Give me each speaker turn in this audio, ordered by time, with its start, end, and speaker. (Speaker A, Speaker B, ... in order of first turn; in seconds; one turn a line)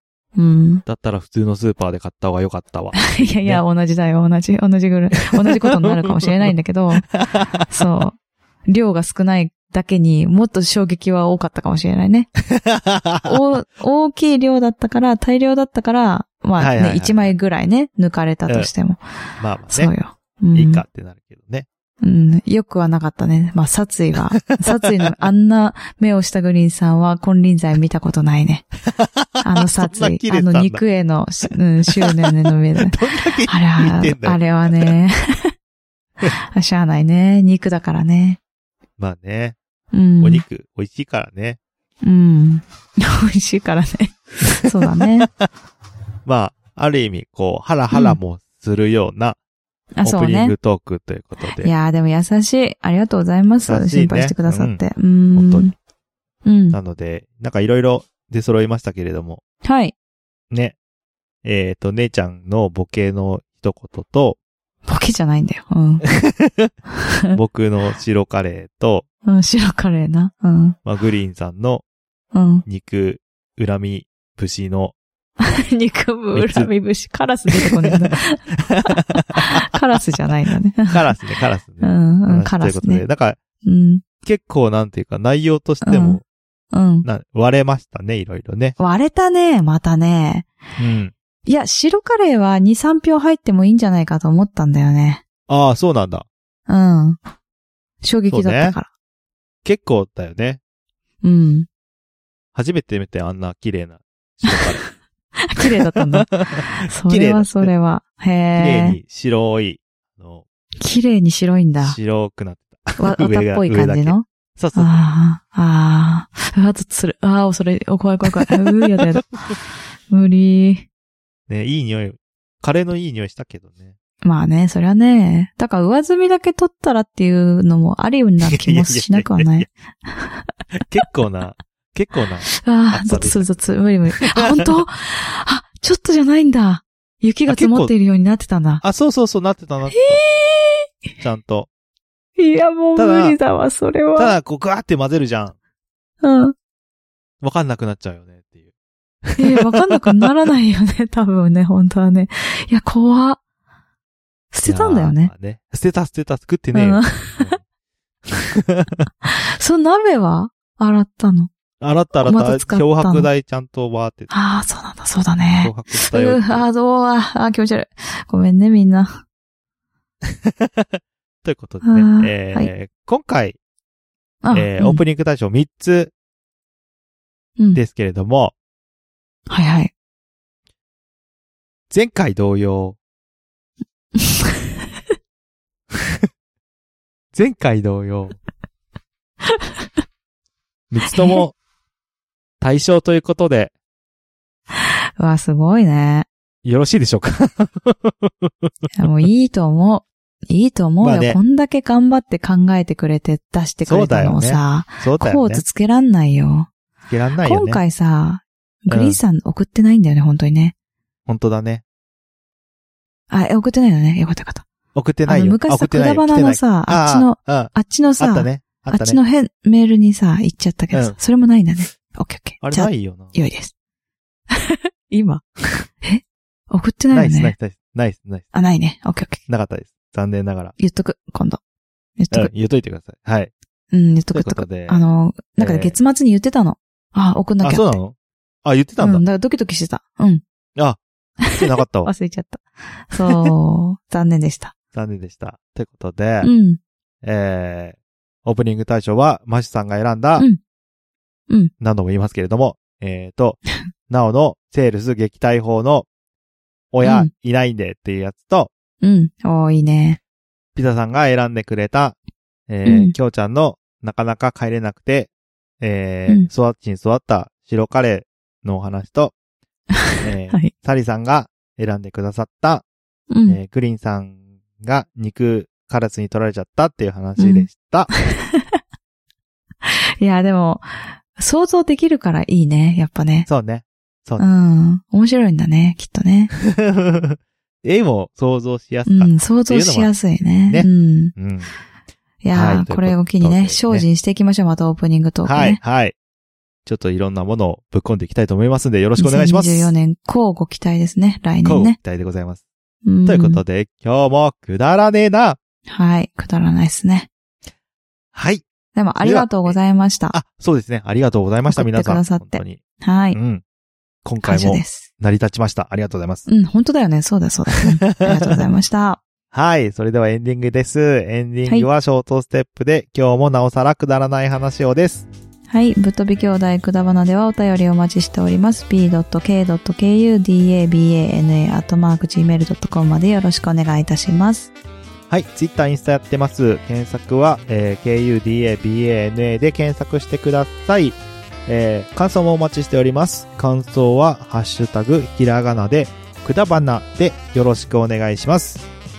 Speaker A: 0.4-0.8
Speaker B: 0.9-3.6
Speaker A: 3.0-7.1
Speaker B: 5.4-6.5
Speaker B: 7.1-7.4
Speaker A: 7.7-12.3
Speaker B: 12.5-13.4
Speaker A: 13.2-19.0
Speaker B: 16.6-17.4
Speaker B: 19.4-19.9
Speaker A: 19.7-20.8
Speaker B: 20.5-21.7
Speaker A: 22.0-28.7
Speaker B: 29.0-30.8
Speaker A: 29.4-35.5
Speaker B: 32.0-34.9
Speaker A: 36.3-38.4
Speaker B: 39.0-39.6
Speaker A: 39.9-40.4
Speaker B: 40.2-41.6
Speaker A: 42.0-45.3
Speaker B: 45.0-45.3
Speaker B: 46.2-49.4
Speaker A: 47.9-48.2
Speaker A: 50.0-50.5
Speaker B: 50.0-51.7
Speaker A: 51.5-55.7
Speaker B: 53.7-54.8
Speaker B: 55.4-55.7
Speaker A: 56.5-56.8
Speaker B: 56.7-59.4
Speaker A: 59.6-60.0
Speaker B: 60.5-60.8
Speaker B: 61.4-64.4
Speaker A: 64.9-66.0
Speaker B: 66.2-66.7
Speaker B: 67.3-69.1
Speaker A: 69.3-70.8
Speaker B: 70.8-71.8
Speaker A: 72.3-72.7
Speaker B: 72.7-75.0
Speaker A: 75.4-81.1
Speaker B: 76.3-76.7
Speaker B: 77.5-78.1
Speaker B: 78.7-79.6
Speaker B: 80.9-83.4
Speaker A: 81.8-83.0
Speaker A: 83.6-84.0
Speaker B: 84.2-86.2
Speaker A: 85.8-86.2
Speaker A: 86.7-87.1
Speaker B: 87.0-88.8
Speaker A: 88.8-90.5
Speaker B: 90.8-91.1
Speaker A: 91.5-95.2
Speaker B: 95.5-96.3
Speaker A: 96.7-97.2
Speaker A: 98.0-98.9
Speaker B: 98.3-98.8
Speaker B: 99.6-100.6
Speaker A: 101.2-101.7
Speaker B: 102.5-104.8
Speaker A: 105.4-109.0
Speaker B: 106.0-107.7
Speaker B: 108.6-110.4
Speaker A: 110.8-112.0
Speaker B: 111.8-115.0
Speaker A: 113.0-119.5
Speaker A: 120.1-120.9
Speaker B: 121.5-123.9
Speaker A: 124.2-130.5
Speaker B: 128.5-129.7
Speaker B: 130.8-133.5
Speaker A: 132.5-138.8
Speaker B: 134.3-134.7
Speaker B: 137.5-137.9
Speaker B: 138.8-140.2
Speaker A: 139.9-140.9
Speaker B: 141.2-141.7
Speaker A: 142.4-144.4
Speaker B: 143.0-143.4
Speaker B: 144.2-145.6
Speaker A: 146.2-146.6
Speaker B: 147.4-148.7
Speaker B: 149.3-150.3
Speaker A: 149.4-153.4
Speaker A: 154.5-155.3
Speaker B: 154.7-157.6
Speaker A: 156.7-157.6
Speaker B: 158.3-159.1
Speaker A: 159.2-161.5
Speaker B: 161.8-164.3
Speaker A: 162.2-163.3
Speaker A: 164.3-169.2
Speaker B: 165.6-166.7
Speaker B: 170.3-173.6
Speaker A: 171.8-172.7
Speaker A: 174.4-175.0
Speaker B: 174.5-176.1
Speaker B: 177.8-178.5
Speaker A: 179.5-179.9
Speaker B: 181.9-183.0
Speaker B: 187.3-188.4
Speaker B: 190.9-191.5
Speaker A: 191.1-191.4
Speaker B: 192.6-193.7
Speaker A: 195.2-196.3
Speaker B: 196.6-198.7
Speaker A: 199.0-206.7
Speaker B: 201.0-201.4
Speaker B: 203.8-205.6
Speaker B: 207.1-207.8
Speaker A: 207.4-210.7
Speaker B: 208.9-209.2
Speaker B: 211.3-211.8
Speaker A: 213.3-214.7
Speaker B: 214.9-219.2
Speaker A: 215.3-223.7
Speaker B: 222.6-223.3
Speaker A: 224.5-225.4
Speaker A: 226.0-227.6
Speaker B: 227.1-228.5
Speaker A: 228.5-229.4
Speaker B: 229.5-230.7
Speaker A: 230.8-231.6
Speaker A: 232.2-232.5
Speaker B: 232.3-233.5
Speaker A: 233.9-238.0
Speaker B: 234.3-235.0
Speaker B: 235.6-235.9
Speaker B: 237.6-239.2
Speaker A: 239.0-240.4
Speaker A: 241.4-244.7
Speaker B: 241.5-242.1
Speaker B: 244.9-246.5
Speaker A: 246.4-246.8
Speaker B: 247.2-250.5
Speaker B: 251.8-256.1
Speaker B: 256.9-258.7
Speaker A: 257.0-257.3
Speaker A: 259.0-260.2
Speaker B: 260.8-262.2
Speaker B: 262.7-269.3
Speaker A: 262.9-263.1
Speaker B: 270.2-272.8
Speaker A: 273.3-273.6
Speaker B: 273.5-278.1
Speaker A: 277.4-277.7
Speaker A: 278.3-278.6
Speaker A: 279.9-283.5
Speaker B: 283.5-284.5
Speaker A: 284.4-286.5
Speaker B: 286.6-291.7
Speaker A: 289.1-291.3
Speaker A: 292.4-295.8
Speaker B: 292.5-294.1
Speaker B: 295.4-296.1
Speaker B: 296.9-299.9
Speaker A: 299.2-302.0
Speaker B: 301.6-302.6
Speaker A: 303.0-303.6
Speaker B: 303.3-305.6
Speaker A: 305.9-307.3
Speaker B: 308.4-308.7
Speaker A: 308.9-310.4
Speaker B: 309.2-309.8
Speaker B: 310.3-312.8
Speaker A: 311.7-313.4
Speaker B: 313.3-313.6
Speaker B: 314.2-316.5
Speaker A: 314.4-315.1
Speaker A: 316.5-319.2
Speaker B: 317.8-318.6
Speaker B: 319.5-325.3
Speaker A: 325.7-334.7
Speaker B: 335.3-348.9